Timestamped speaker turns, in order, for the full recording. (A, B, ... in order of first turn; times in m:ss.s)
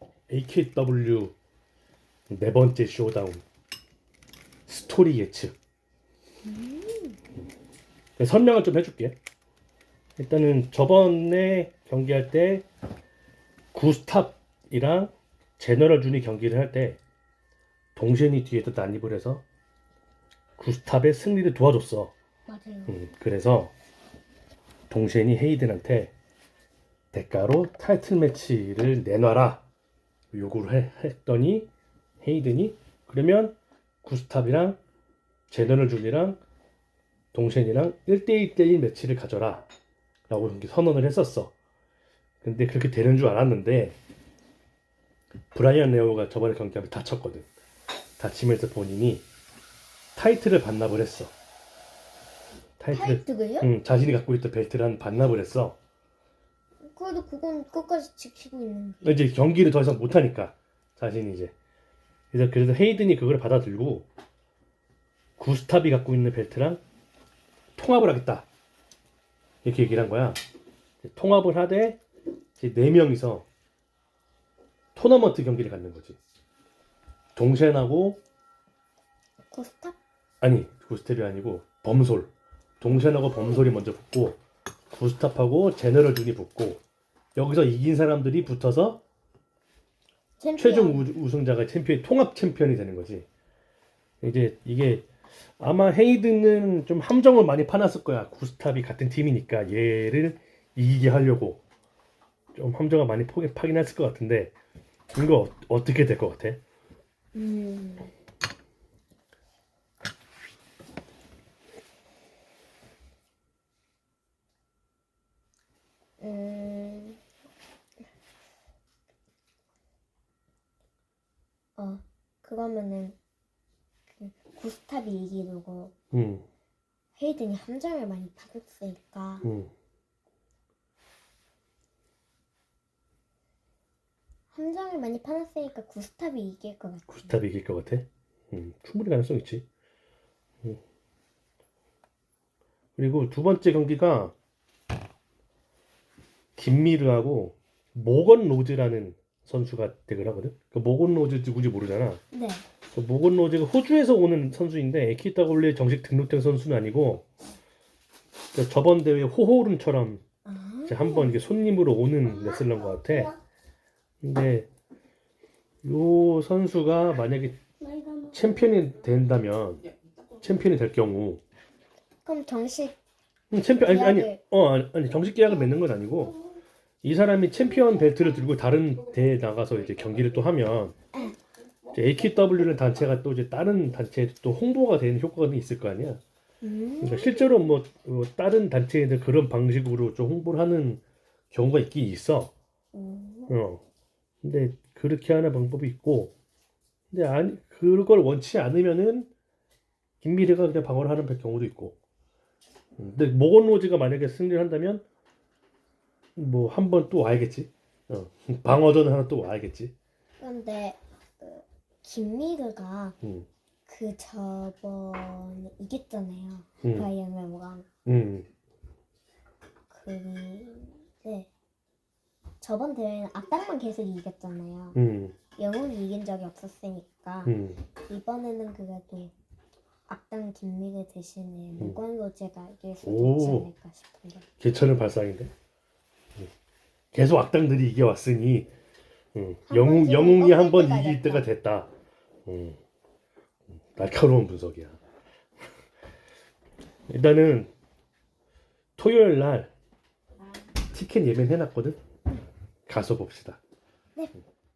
0:00.3-0:01.3 A
0:02.3-0:03.4 A
0:04.7-0:05.6 A
0:06.4-0:07.2 B
0:08.2-0:09.2 A
0:10.2-0:12.6 A
0:13.7-0:17.0 A
0:18.0-0:19.4 A
0:20.6-0:22.1 A
0:22.5-0:23.0 B
0:22.9-0:23.7 A
0:24.9-0:26.1 A
0:27.1-0:29.6 A
0:30.3-0:31.7 A
0:32.2-0:34.8 A
0:35.5-0:36.4 A
0:37.3-0:39.7 A
0:40.3-0:41.5 A
0:42.4-0:44.0 A
0:45.5-0:47.5 A
0:48.2-0:49.2 A
0:50.1-0:51.3 A
0:52.8-0:55.8 A
0:52.9-0:53.7 B
0:56.9-0:59.2 B
0:59.0-1:01.5 A
1:02.3-1:04.1 A
1:05.4-1:06.8 A
1:07.8-1:08.5 A
1:09.6-1:10.4 A
1:11.0-1:12.0 A
1:12.6-1:13.4 A
1:14.9-1:16.2 A
1:17.4-1:18.2 A
1:19.5-1:20.0 B
1:20.4-1:26.8 A
1:27.4-1:29.0 A
1:30.4-1:31.1 B
1:30.6-1:33.3 A
1:34.2-1:35.1 A
1:35.6-1:41.6 A
1:42.5-1:44.5 A
1:45.1-1:46.6 A
1:47.3-1:48.1 B
1:56.2-1:57.2 B
2:01.8-2:03.2 B
2:04.2-2:05.9 B
2:06.1-2:06.4 A
2:07.1-2:09.4 B
2:09.4-2:09.7 A
2:14.5-2:17.4 B
2:17.1-2:19.6 A
2:23.0-2:24.3 A
2:26.6-2:32.2 A
2:32.3-2:32.6 B
2:32.9-2:37.2 A
2:38.5-2:40.2 A
2:40.4-2:41.4 B
2:40.9-2:43.3 A
2:44.2-2:44.7 A
2:45.8-2:47.6 A
2:47.9-2:48.3 B
2:48.3-2:51.4 A
2:52.2-2:53.0 B
2:53.5-2:56.4 A
2:53.8-2:54.4 B
2:57.0-3:01.0 A
3:01.9-3:06.2 A
3:06.6-3:07.3 B
3:07.0-3:12.5 A
3:12.9-3:13.5 B
3:13.5-3:13.8 A
3:14.4-3:16.3 A
3:17.1-3:19.3 A
3:20.2-3:22.0 A
3:23.0-3:25.0 A
3:26.4-3:29.9 A
3:30.4-3:33.2 B
3:33.2-3:33.5 A
3:33.9-3:37.9 B
3:36.8-3:37.1 A
3:38.0-3:38.5 A
3:39.9-3:41.5 B
3:42.6-3:45.0 B
3:44.9-3:45.4 A
3:45.6-3:47.5 B
3:47.4-3:47.8 A
3:48.0-3:49.3 B
3:50.1-3:54.4 B
3:53.0-3:53.7 A
3:54.6-3:55.5 A
3:57.1-3:58.7 A
3:59.3-4:01.9 A
3:59.7-4:01.5 B
4:02.4-4:02.8 A
4:03.9-4:05.0 A
4:07.1-4:07.7 A
4:09.0-4:09.7 A
4:10.9-4:12.0 A
4:12.9-4:13.6 A